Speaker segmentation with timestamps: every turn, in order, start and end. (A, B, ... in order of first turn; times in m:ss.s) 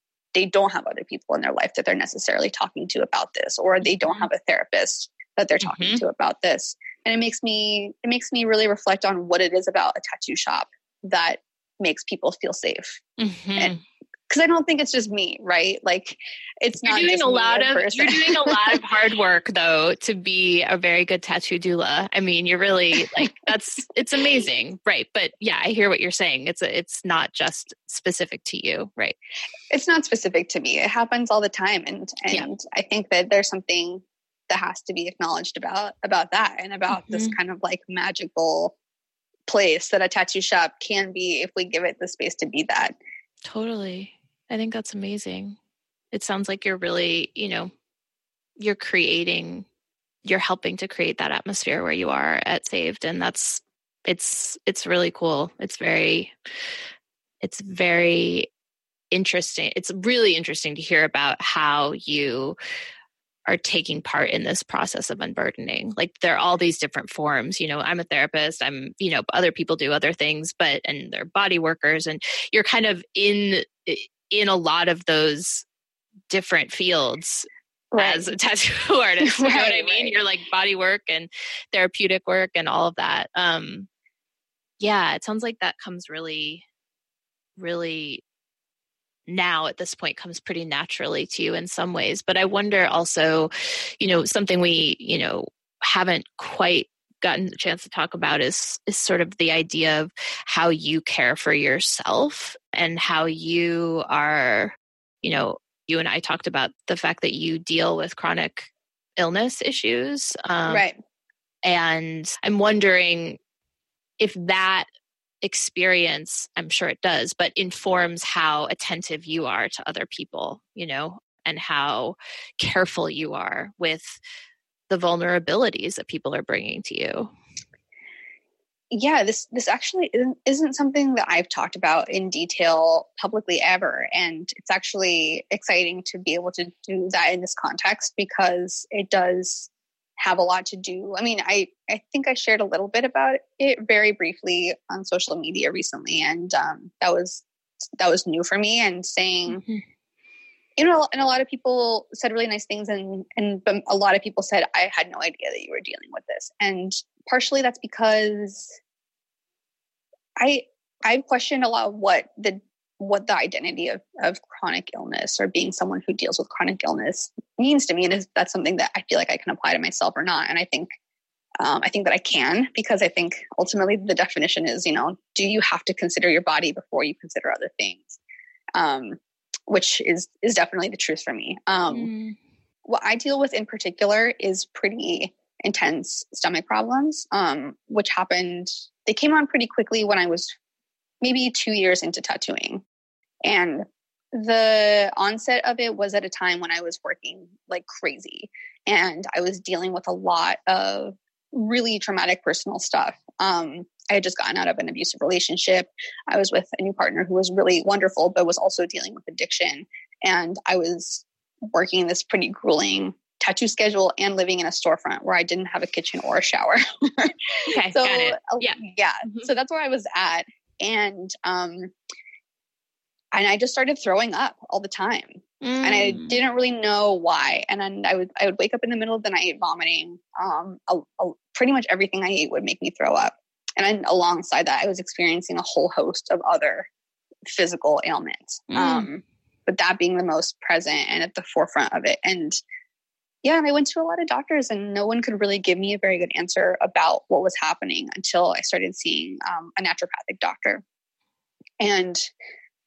0:00.3-0:13.0 A
0:04.0-0:04.3 B
0:05.6-0:06.0 B
0:13.2-0:13.8 B
0:14.3-0:18.8 A
0:16.8-0:29.2 B
0:29.7-0:38.7 A
0:36.9-0:37.3 B
0:39.5-0:43.0 A
0:43.4-0:45.6 B
0:46.1-0:47.7 B
0:48.6-0:49.7 B
0:50.2-0:56.3 B
0:57.4-0:58.5 B
0:59.1-1:02.6 B
1:03.5-1:15.6 B
1:16.3-1:23.9 B
1:17.9-1:18.3 A
1:19.2-1:20.1 A
1:24.8-1:26.6 B
1:27.6-1:28.2 B
1:29.3-1:50.8 B
1:50.7-1:51.0 A
1:51.6-1:53.4 B
1:54.2-1:54.9 B
1:55.4-2:04.2 B
2:04.9-2:07.3 B
2:08.9-2:27.4 A
2:28.0-2:29.6 A
2:29.5-2:29.8 B
2:30.8-2:38.7 A
2:40.4-2:50.9 A
2:51.6-2:58.2 A
2:58.7-3:02.1 A
3:01.9-3:02.4 B
3:02.9-3:10.5 A
3:11.2-3:12.8 A
3:13.4-3:41.9 A
3:37.7-3:38.8 B
3:43.3-3:56.9 A
3:45.6-3:46.4 B
3:57.5-4:02.6 A
3:58.7-3:59.1 B
4:03.4-4:10.8 A
4:11.8-4:12.3 A